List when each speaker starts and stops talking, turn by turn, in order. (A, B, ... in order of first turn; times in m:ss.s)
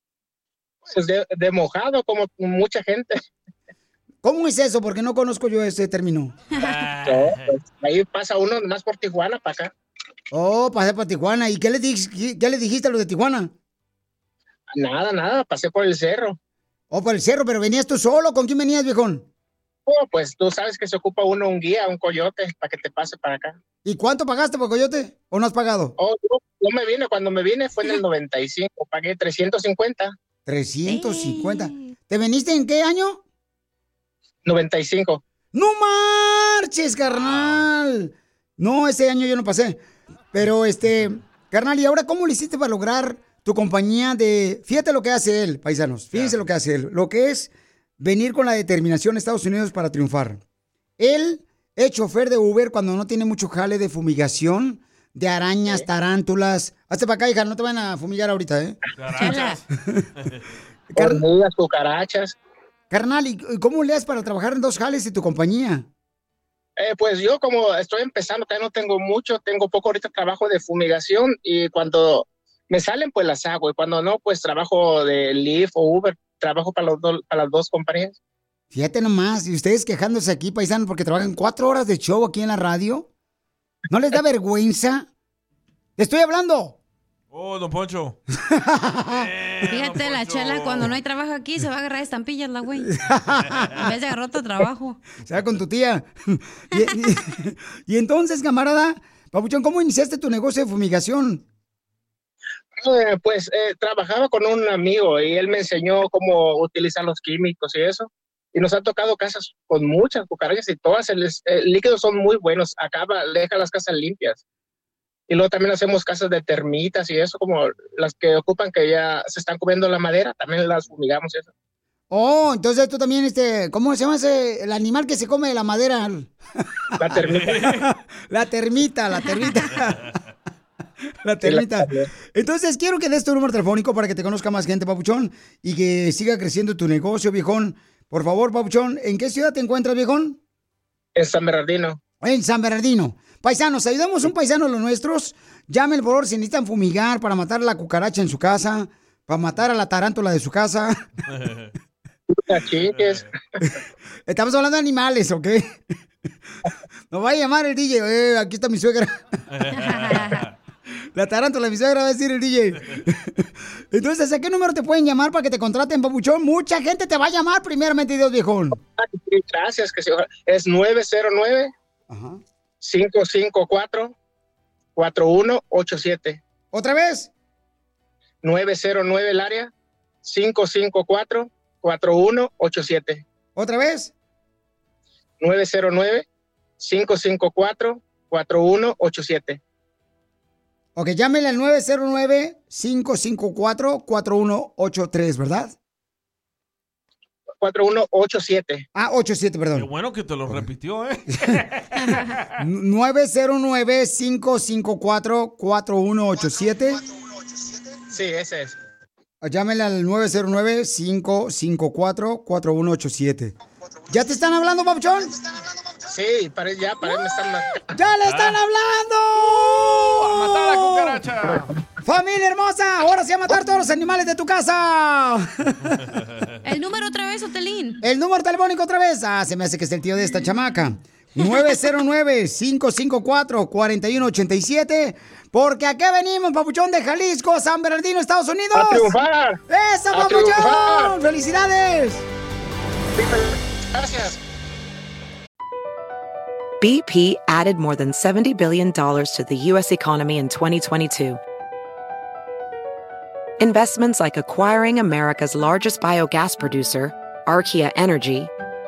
0:00.9-0:03.2 A
0:04.2-0:06.4 B
0:06.6-0:06.8 C
0:06.6-0:07.6 D
0:07.1-0:09.7 A
0:10.3-0:13.5 B
0:14.7-0:16.4 A
0:16.9-0:19.3 B
0:19.9-0:23.6 A
0:23.8-0:25.9 B
0:26.0-0:30.2 A
0:30.5-0:33.2 B
0:30.9-0:31.6 C
0:34.5-0:35.2 A
0:35.5-0:39.8 B
0:37.1-0:37.6 D
0:40.3-0:50.4 B
0:46.1-0:46.4 D
0:51.0-0:58.8 B
0:59.0-0:59.6 D
0:59.2-0:59.6 C
1:00.9-1:01.2 B
1:01.0-1:02.4 A
1:02.9-1:05.9 B
1:06.8-1:18.2 A
1:18.7-1:23.1 B
1:23.9-1:25.1 B
1:26.0-1:26.8 B
1:27.3-1:28.2 D
1:28.5-1:29.3 B
1:29.1-1:30.9 D
1:29.7-1:32.9 C
1:32.8-1:33.9 B
1:33.8-1:35.0 C
1:35.3-1:41.4 B
1:42.8-1:54.4 A
1:55.3-2:01.5 A
2:02.1-2:06.3 B
2:07.0-2:07.5 A
2:07.1-2:10.0 B
2:07.3-2:07.9 D
2:11.2-2:20.4 B
2:11.4-2:12.1 A
2:21.2-2:22.0 A
2:22.2-2:31.0 B
2:31.3-2:31.7 D
2:32.3-2:33.2 A
2:32.8-2:33.3 D
2:34.3-2:35.8 B
2:37.1-2:39.2 B
2:39.5-2:40.5 D
2:39.8-2:40.4 C
2:41.2-2:48.8 B
2:49.0-2:51.7 A
2:52.1-2:52.4 B
2:52.8-2:54.1 A
2:55.0-2:56.4 A
2:56.7-2:57.3 B
2:58.4-2:59.7 A
3:00.2-3:03.2 A
3:03.6-3:04.1 B
3:05.4-3:06.3 A
3:06.8-3:09.6 A
3:11.0-3:15.8 B
3:17.6-3:18.9 A
3:19.0-3:19.9 B
3:19.8-3:22.2 D
3:22.6-3:27.0 B
3:28.1-3:28.8 A
3:29.4-3:33.6 B
3:34.1-3:35.4 B
3:36.0-3:37.8 A
3:37.9-3:41.2 B
3:38.2-3:38.6 D
3:39.4-3:41.7 D
3:42.0-3:46.0 B
3:46.6-3:48.0 C
3:48.0-4:02.2 B
3:58.7-3:59.6 A
4:00.1-4:01.1 A
4:03.2-4:04.4 A
4:06.8-4:11.4 E
4:13.6-4:18.5 E